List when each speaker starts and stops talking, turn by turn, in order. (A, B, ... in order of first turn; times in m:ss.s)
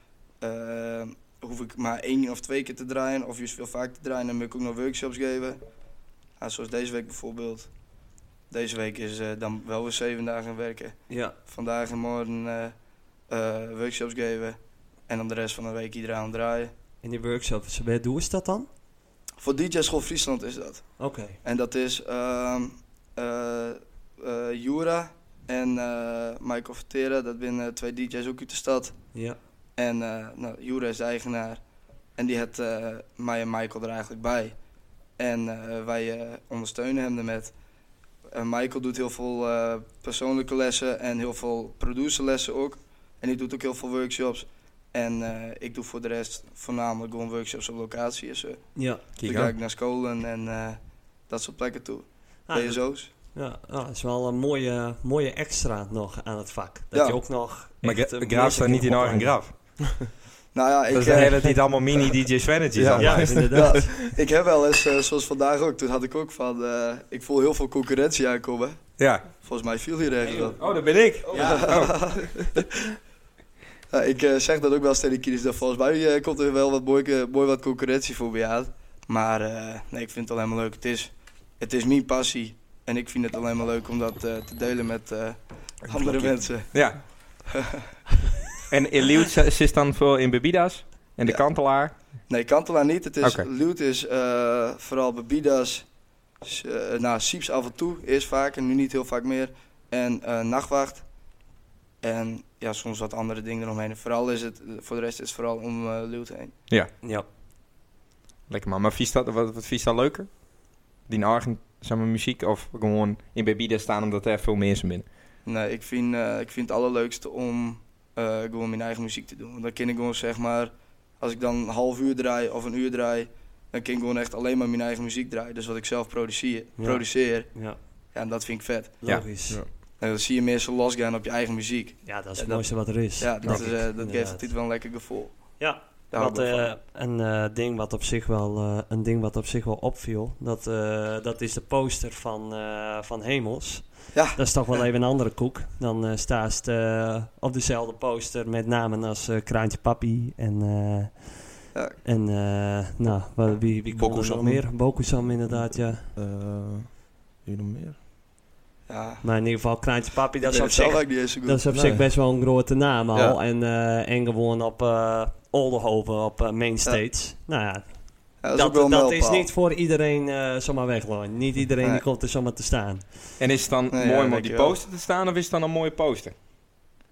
0:00.4-0:05.6 A
0:06.4-0:07.7 A
0:08.5-0:12.7 A
0:11.1-0:11.4 B
0:13.3-0:16.7 A
0:17.0-0:18.7 B
0:19.4-0:29.0 A
0:21.0-0:21.4 B
0:29.8-0:31.6 A
0:32.2-0:34.6 A
0:35.2-0:37.5 A
0:38.3-0:53.1 A
0:48.7-0:49.0 B
0:49.2-0:49.5 C
0:52.5-0:59.3 B
0:56.9-0:57.2 A
0:57.8-0:59.5 C
1:00.5-1:01.8 A
1:00.9-1:03.4 C
1:02.7-1:04.0 D
1:03.0-1:03.9 B
1:03.5-1:08.8 A
1:09.0-1:09.3 C
1:09.3-1:10.6 A
1:10.2-1:11.9 B
1:10.6-1:12.4 C
1:11.3-1:12.4 A
1:13.9-1:27.8 A
1:25.8-1:27.1 C
1:28.7-1:32.0 C
1:31.2-1:35.9 A
1:33.2-1:33.5 C
1:36.4-1:41.0 A
1:42.0-1:46.5 A
1:47.0-1:47.3 B
1:48.5-1:55.0 C
1:55.4-2:09.0 A
2:06.8-2:07.8 B
2:09.0-2:09.6 B
2:10.0-2:16.7 A
2:12.0-2:14.5 B
2:13.4-2:13.7 C
2:15.6-2:36.1 B
2:24.1-2:24.8 A
2:33.9-2:38.0 D
2:38.9-2:39.2 A
2:39.2-2:53.2 B
2:40.4-2:41.6 A
2:41.7-2:42.1 D
2:43.1-2:43.4 D
2:48.4-2:49.5 A
2:53.4-2:56.3 C
2:53.9-2:54.8 A